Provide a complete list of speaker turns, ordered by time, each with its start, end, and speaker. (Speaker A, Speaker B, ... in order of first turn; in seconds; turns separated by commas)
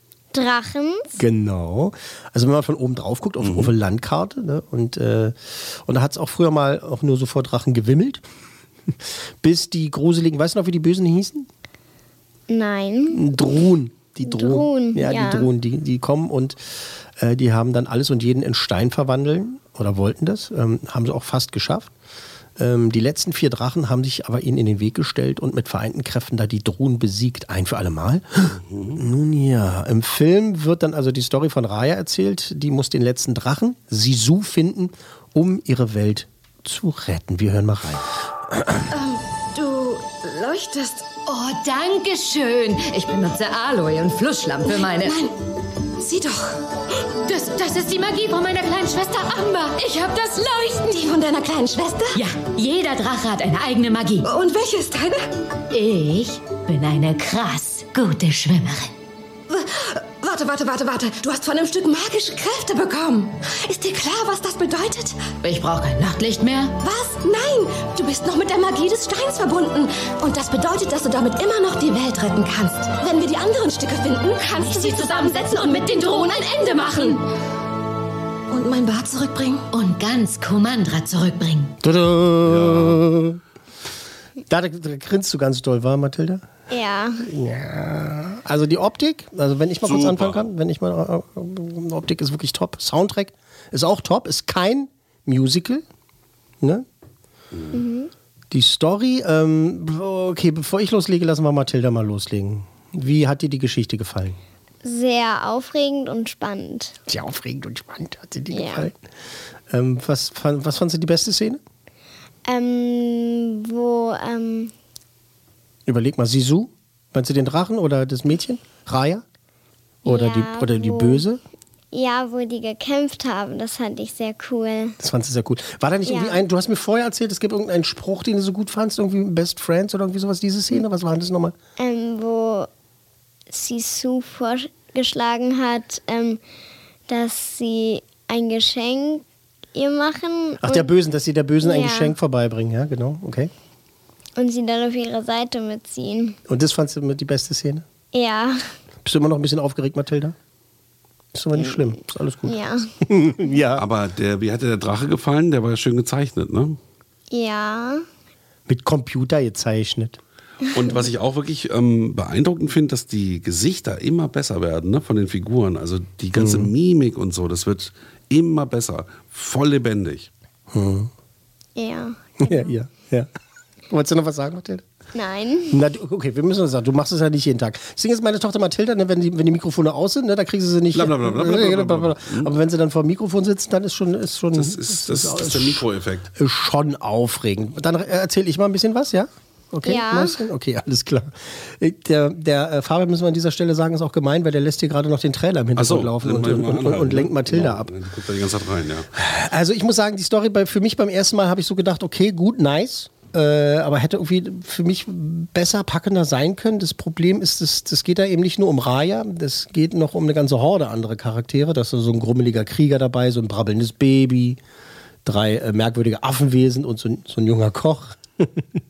Speaker A: 0.3-1.2, Speaker B: 1.2-8.2, Speaker C: 3.4-3.7, Speaker B: 9.4-11.5, Speaker A: 12.5-13.6, Speaker B: 13.1-16.6, Speaker A: 14.2-15.5, Speaker B: 17.2-21.9, Speaker B: 22.6-38.8, Speaker C: 28.6-29.0, Speaker D: 38.9-41.1, Speaker E: 41.2-45.2, Speaker D: 44.6-45.3, Speaker D: 46.0-46.6, Speaker E: 47.3-49.8, Speaker D: 49.2-52.2, Speaker E: 52.1-54.3, Speaker D: 54.2-55.3, Speaker E: 55.7-58.9, Speaker D: 59.5-65.3, Speaker E: 65.4-66.8, Speaker D: 66.8-77.2, Speaker E: 74.6-75.7, Speaker D: 78.5-79.7, Speaker E: 79.7-81.7, Speaker B: 81.8-83.4, Speaker C: 82.4-83.0, Speaker B: 84.5-86.4, Speaker A: 86.7-87.2, Speaker B: 87.2-95.8, Speaker C: 89.8-90.5, Speaker C: 97.5-97.8, Speaker A: 97.7-98.1, Speaker B: 98.5-104.4, Speaker A: 104.8-106.9, Speaker B: 107.1-108.9, Speaker A: 108.5-108.9, Speaker B: 109.7-111.6, Speaker A: 112.5-114.7, Speaker B: 115.9-119.2, Speaker A: 120.0-121.2, Speaker B: 120.0-121.4, Speaker A: 121.9-124.9, Speaker B: 125.0-131.5, Speaker A: 126.0-126.4, Speaker A: 131.8-132.7, Speaker A: 133.5-136.4, Speaker A: 137.1-139.2, Speaker A: 139.7-140.9, Speaker B: 140.6-143.5, Speaker A: 141.6-142.1, Speaker A: 144.4-146.4, Speaker B: 146.5-147.8, Speaker A: 148.1-148.7, Speaker B: 149.0-150.3, Speaker B: 151.3-153.8, Speaker A: 151.6-151.9, Speaker A: 152.4-152.8, Speaker C: 153.7-156.8, Speaker A: 157.3-158.0, Speaker B: 158.7-160.2, Speaker C: 160.7-170.3, Speaker B: 166.3-166.7, Speaker B: 170.7-171.1, Speaker A: 171.8-172.7, Speaker B: 172.4-173.3, Speaker B: 173.9-174.8, Speaker A: 175.1-175.8, Speaker B: 175.7-197.9, Speaker C: 180.9-182.6, Speaker C: 184.5-186.3, Speaker A: 189.8-190.4, Speaker C: 195.8-199.1, Speaker B: 199.1-214.6, Speaker B: 215.2-218.6